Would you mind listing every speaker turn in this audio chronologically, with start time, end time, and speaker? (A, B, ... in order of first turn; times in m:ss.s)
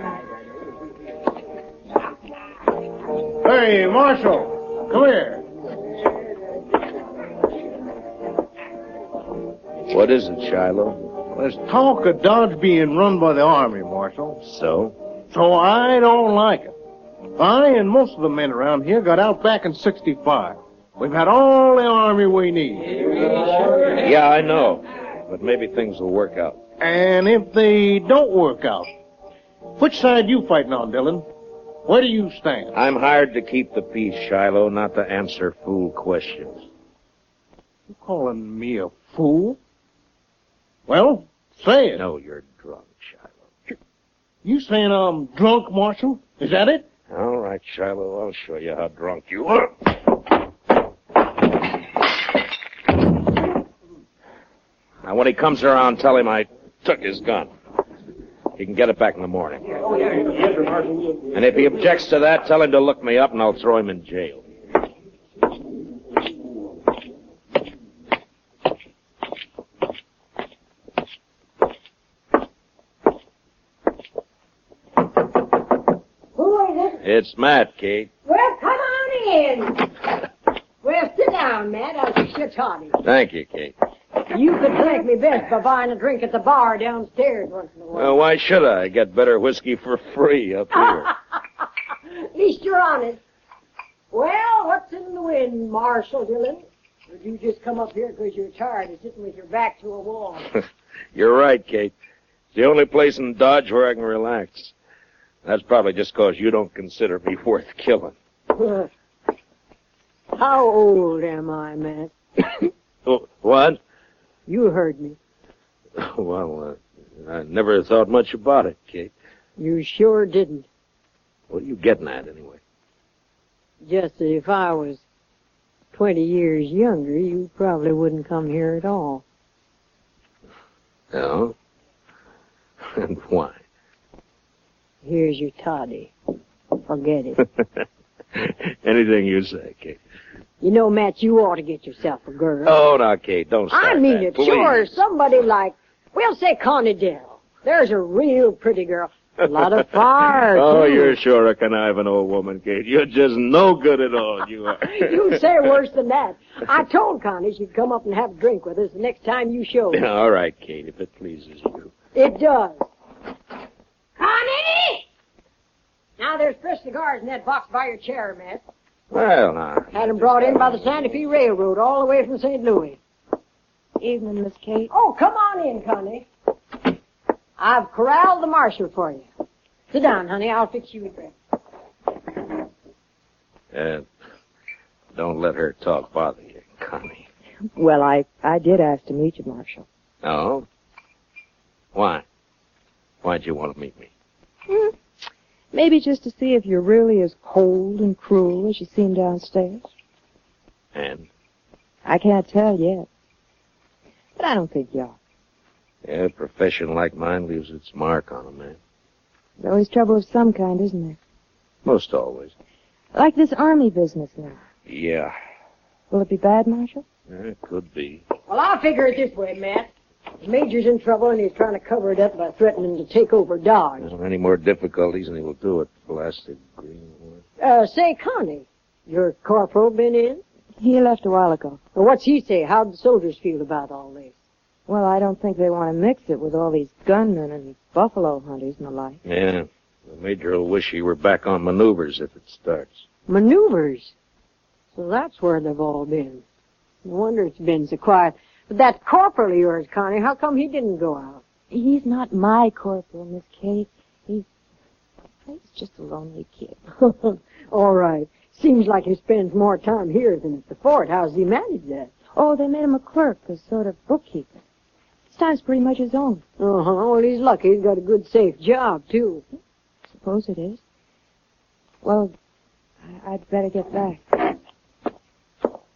0:03.4-0:05.4 A
0:09.9-0:11.0 B
0:11.3-0:14.4 A
0:14.4-0:15.0 B
0:15.3-0:16.7 A
0:17.4-0:23.2 A
0:23.8-0:26.6 B
0:26.8-0:28.9 A
0:29.8-0:31.2 A
0:31.8-0:32.7 A
0:32.7-0:36.6 B
0:37.9-0:39.6 A
0:40.9-0:42.0 A
0:41.9-0:43.4 B
0:44.4-0:46.9 A
0:47.1-0:49.9 B
0:55.0-0:57.5 B
0:58.6-0:59.8 B
1:01.3-1:04.4 B
1:16.3-1:17.0 C
1:17.0-1:18.1 B
1:18.2-1:19.9 C
1:20.8-1:23.0 C
1:23.0-1:23.7 B
1:24.3-1:28.1 C
1:27.9-1:31.1 B
1:30.8-1:31.1 C
1:32.3-1:33.2 C
1:34.1-1:40.5 C
1:41.1-1:41.9 B
1:42.5-1:44.7 B
1:45.4-1:48.2 B
1:48.6-1:48.8 C
1:50.3-1:52.7 C
1:53.0-1:53.8 B
1:54.5-1:55.2 C
1:56.0-1:59.1 B
1:59.6-2:00.7 C
2:01.5-2:02.6 B
2:03.8-2:05.0 C
2:05.9-2:09.2 C
2:11.1-2:11.5 B
2:12.8-2:13.6 B
2:15.0-2:16.1 C
2:16.8-2:17.4 C
2:18.3-2:20.0 B
2:20.6-2:22.8 C
2:22.6-2:25.0 B
2:23.7-2:31.1 C
2:30.5-2:35.3 B
2:34.8-2:40.0 C
2:39.9-2:41.9 B
2:42.1-2:42.8 C
2:44.2-2:45.0 C
2:46.2-2:48.6 C
2:49.1-2:50.8 B
2:49.9-2:53.0 C
2:54.0-2:54.9 D
2:54.9-2:56.3 C
2:57.6-2:59.2 C
2:59.9-3:01.3 C
3:03.7-3:04.1 B
3:05.1-3:07.3 B
3:07.8-3:09.8 D
3:10.2-3:10.6 B
3:11.9-3:12.2 B
3:13.2-3:14.1 B
3:14.7-3:14.9 D
3:15.7-3:19.8 D
3:20.9-3:21.3 B
3:22.0-3:23.1 D
3:24.4-3:25.2 D
3:26.0-3:28.8 B
3:29.6-3:31.2 D
3:31.8-3:32.5 B
3:33.1-3:34.6 D
3:34.8-3:35.3 B
3:36.1-3:37.0 D
3:37.3-3:38.2 B
3:38.5-3:39.9 C
3:40.4-3:44.1 C
3:44.0-3:47.4 B
3:47.6-3:50.4 C
3:50.8-3:51.8 D
3:51.9-3:54.4 C
3:54.9-3:59.2 D
3:59.2-4:03.1 B
4:03.3-4:04.1 C
4:04.9-4:06.4 C
4:07.0-4:11.4 C
4:11.7-4:14.5 D
4:15.4-4:16.8 D
4:17.1-4:22.1 C
4:22.4-4:24.5 D
4:25.3-4:26.4 D
4:26.6-4:29.4 C
4:30.2-4:30.8 D
4:32.0-4:32.3 D
4:33.1-4:34.5 D